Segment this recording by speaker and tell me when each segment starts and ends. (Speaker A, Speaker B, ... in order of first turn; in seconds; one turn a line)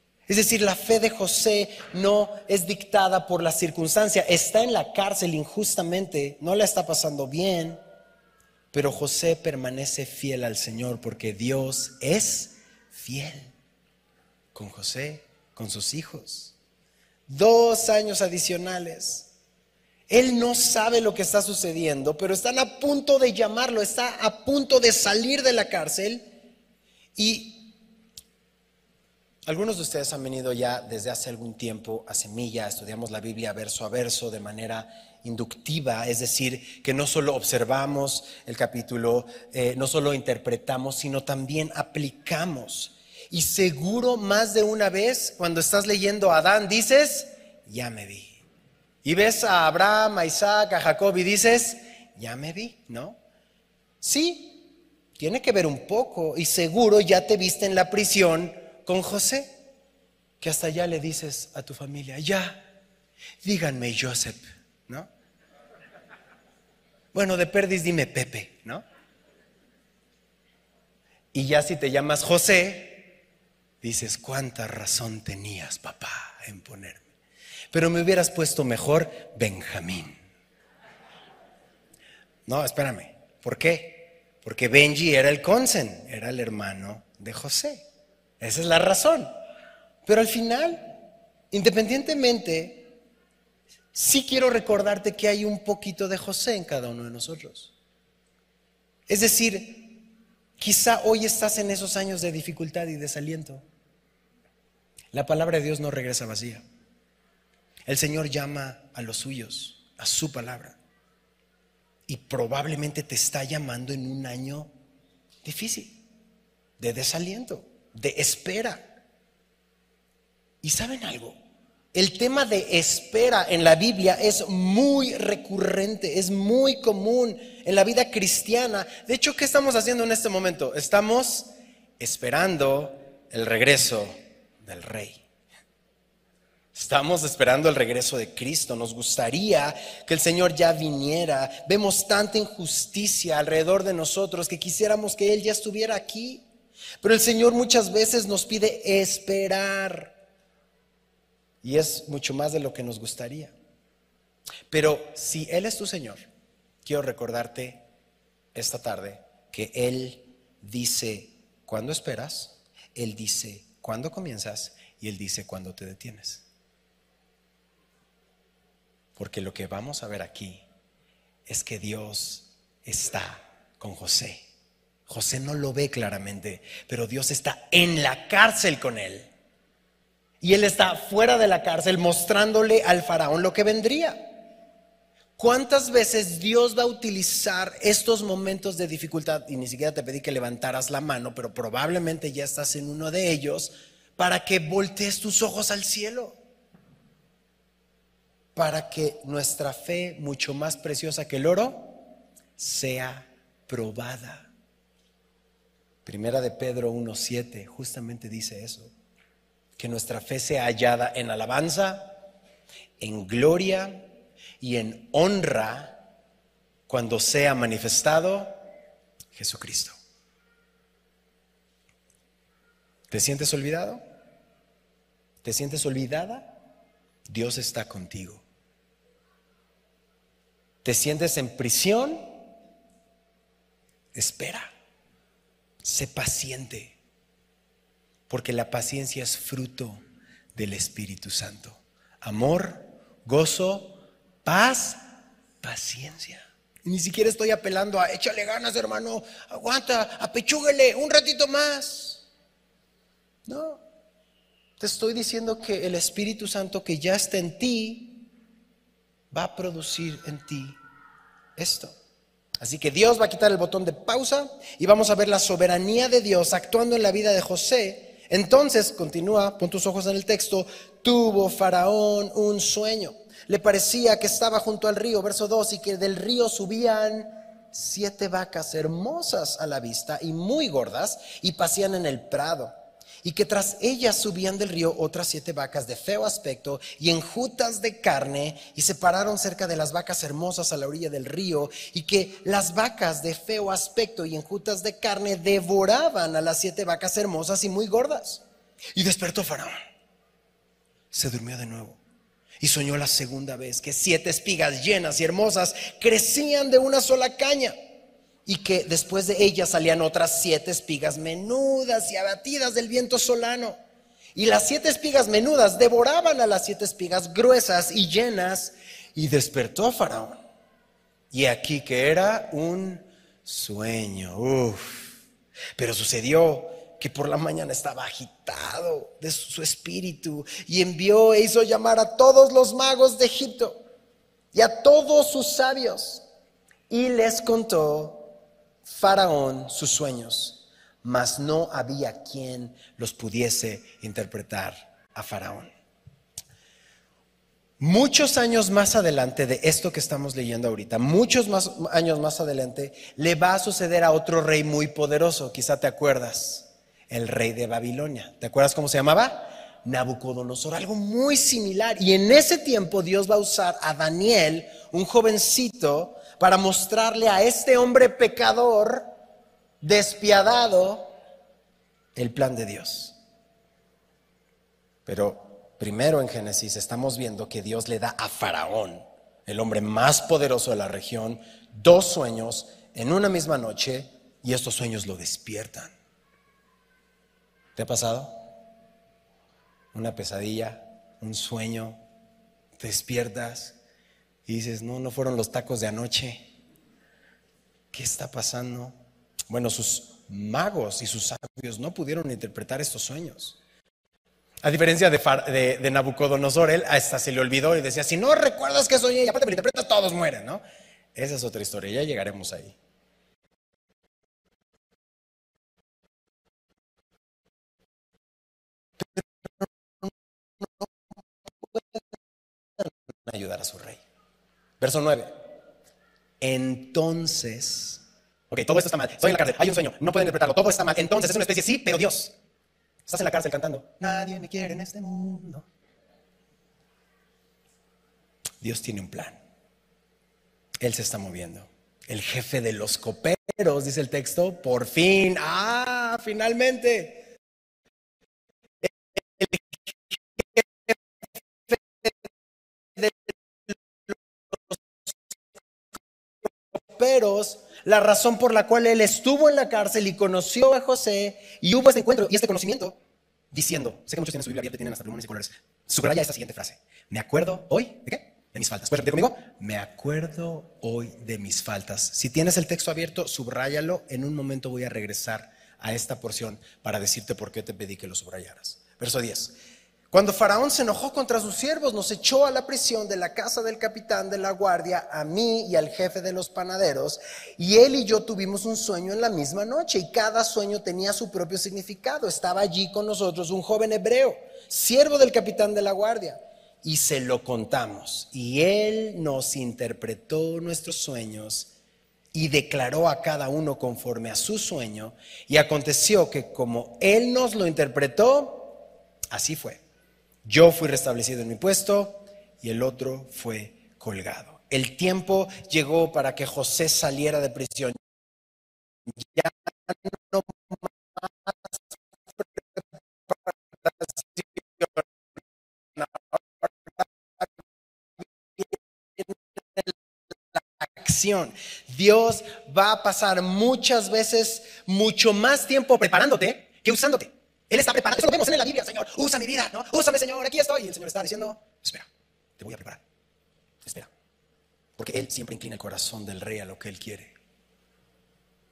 Speaker A: 0.3-7.8
Speaker A: 8.7-13.5
Speaker A: 14.5-16.5
Speaker A: 17.3-19.3
Speaker A: 20.1-26.3
Speaker A: 27.1-27.7
Speaker A: 29.5-48.4
Speaker A: 49.0-53.2
Speaker A: 54.0-54.6
Speaker A: 55.2-59.5
Speaker A: 60.4-62.7
Speaker A: 63.4-65.1
Speaker A: 67.1-68.8
Speaker A: 71.3-73.1
Speaker A: 73.8-77.0
Speaker A: 77.7-80.2
Speaker A: 82.5-87.8
Speaker A: 88.4-89.3
Speaker A: 90.0-91.0
Speaker A: 91.5-92.9
Speaker A: 93.9-97.7
Speaker A: 99.1-100.0
Speaker A: 100.6-103.6
Speaker A: 105.1-106.6
Speaker A: 107.9-110.8
Speaker A: 112.1-114.7
Speaker A: 115.4-116.0
Speaker A: 116.8-118.9
Speaker A: 120.6-121.4
Speaker A: 121.9-135.2
Speaker A: 136.7-146.4
Speaker A: 147.0-150.2
Speaker A: 151.6-153.5
Speaker A: 154.7-156.2
Speaker A: 156.8-157.8
Speaker A: 158.5-166.4
Speaker A: 169.2-170.6
Speaker A: 171.5-174.4
Speaker A: 175.1-179.3
Speaker A: 180.4-184.3
Speaker A: 185.4-196.4
Speaker A: 198.5-202.0
Speaker A: 202.6-204.5
Speaker A: 206.0-208.9
Speaker A: 209.8-212.2
Speaker A: 213.0-214.1
Speaker A: 214.6-216.0
Speaker A: 216.9-218.5
Speaker A: 219.3-220.0
Speaker A: 223.1-224.0
Speaker A: 225.4-226.5
Speaker A: 227.3-228.4
Speaker A: 230.8-232.2
Speaker A: 234.1-234.7
Speaker A: 235.8-236.9
Speaker A: 238.3-240.0
Speaker A: 240.5-245.0
Speaker A: 245.6-252.2
Speaker A: 253.5-253.8
Speaker A: 254.8-258.2
Speaker A: 259.3-260.8
Speaker A: 261.6-261.9
Speaker A: 262.6-298.4
Speaker A: 298.9-299.7
Speaker A: 301.1-302.0
Speaker A: 302.6-307.7
Speaker A: 308.4-313.8
Speaker A: 314.3-320.4
Speaker A: 321.3-325.1
Speaker A: 325.8-333.8
Speaker A: 334.5-336.2
Speaker A: 336.9-345.7
Speaker A: 347.8-369.1
Speaker A: 369.8-371.1
Speaker A: 372.1-373.1
Speaker A: 375.1-385.9
Speaker A: 387.8-388.3
Speaker A: 389.9-392.0
Speaker A: 392.8-393.8
Speaker A: 394.4-396.5
Speaker A: 397.9-399.0
Speaker A: 399.5-403.6
Speaker A: 404.6-410.6
Speaker A: 411.1-412.8
Speaker A: 419.0-420.9
Speaker A: 421.5-422.0
Speaker A: 422.8-424.0
Speaker A: 424.8-425.4
Speaker A: 426.4-432.3
Speaker A: 433.1-435.7
Speaker A: 438.6-439.4
Speaker A: 440.8-447.3
Speaker A: 448.8-450.9
Speaker A: 451.7-452.1
Speaker A: 453.0-455.1
Speaker A: 456.9-463.0
Speaker A: 463.5-479.5
Speaker A: 480.1-501.7
Speaker A: 502.3-508.8
Speaker A: 509.3-509.8
Speaker A: 510.4-518.0
Speaker A: 519.1-521.8
Speaker A: 522.3-525.1
Speaker A: 526.0-527.5
Speaker A: 528.2-530.0
Speaker A: 530.5-542.1
Speaker A: 542.6-543.0
Speaker A: 545.0-547.3